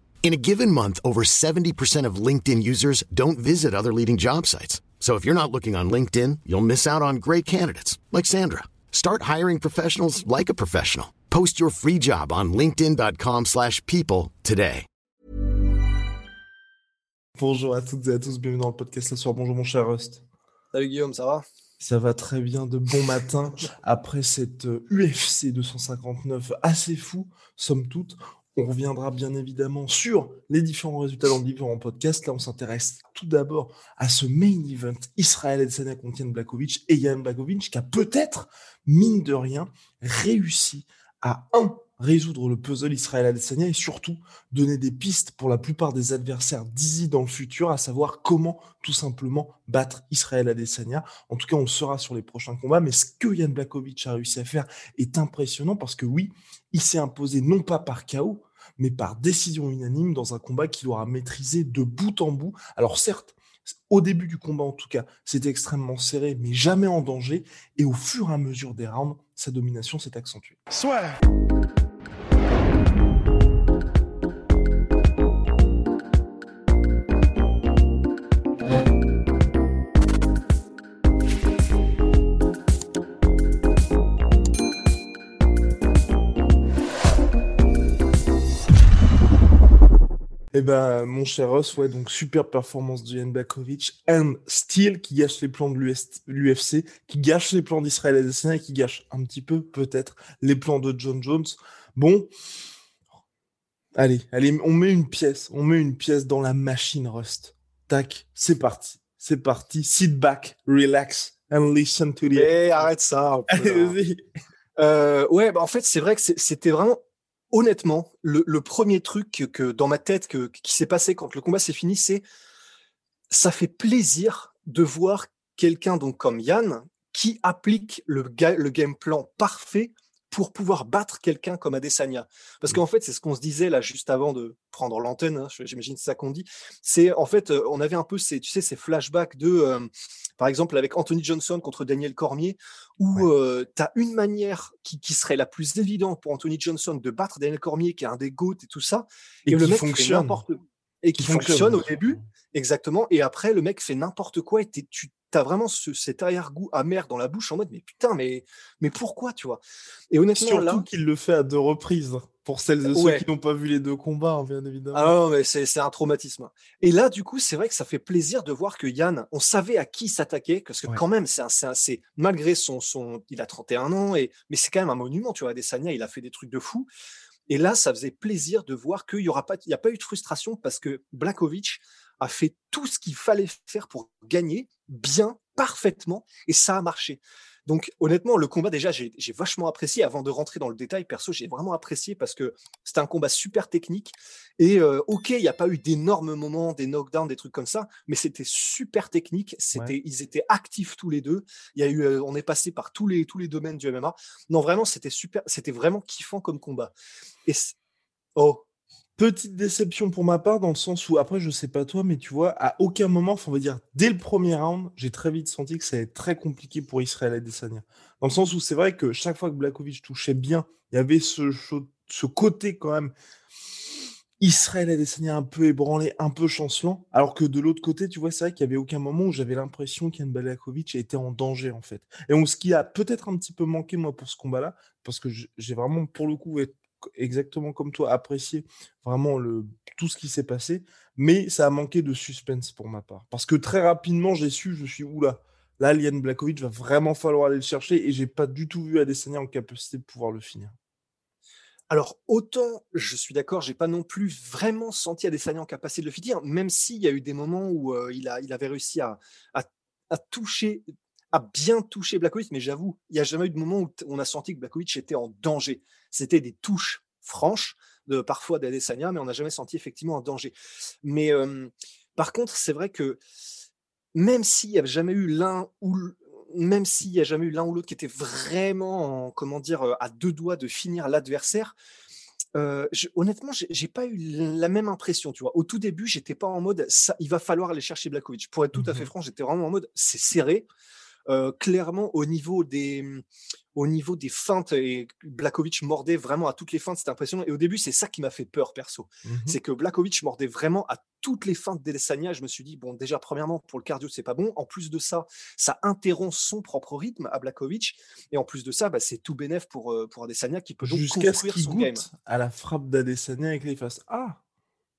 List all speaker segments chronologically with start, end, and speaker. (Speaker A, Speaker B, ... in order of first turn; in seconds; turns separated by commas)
Speaker A: 0.2-14.9, Speaker B: 17.4-20.2, Speaker C: 20.7-21.4, Speaker B: 21.8-70.8, Speaker B: 90.5-102.3, Speaker B: 104.0-112.8, Speaker C: 112.3-114.0, Speaker B: 113.5-114.2, Speaker C: 114.8-117.0, Speaker C: 117.5-122.2, Speaker C: 123.3-160.9, Speaker B: 149.5-150.4, Speaker B: 151.2-152.2, Speaker B: 160.4-165.1, Speaker C: 162.8-163.2, Speaker C: 164.9-176.9, Speaker C: 177.5-206.9, Speaker C: 207.5-207.8, Speaker C: 208.4-208.6, Speaker B: 209.2-223.1, Speaker B: 224.4-250.8, Speaker C: 251.9-273.2, Speaker C: 274.1-281.7, Speaker C: 282.6-290.7, Speaker B: 288.8-289.1, Speaker C: 291.3-293.2, Speaker C: 293.8-312.1, Speaker B: 299.2-299.6, Speaker B: 310.8-314.4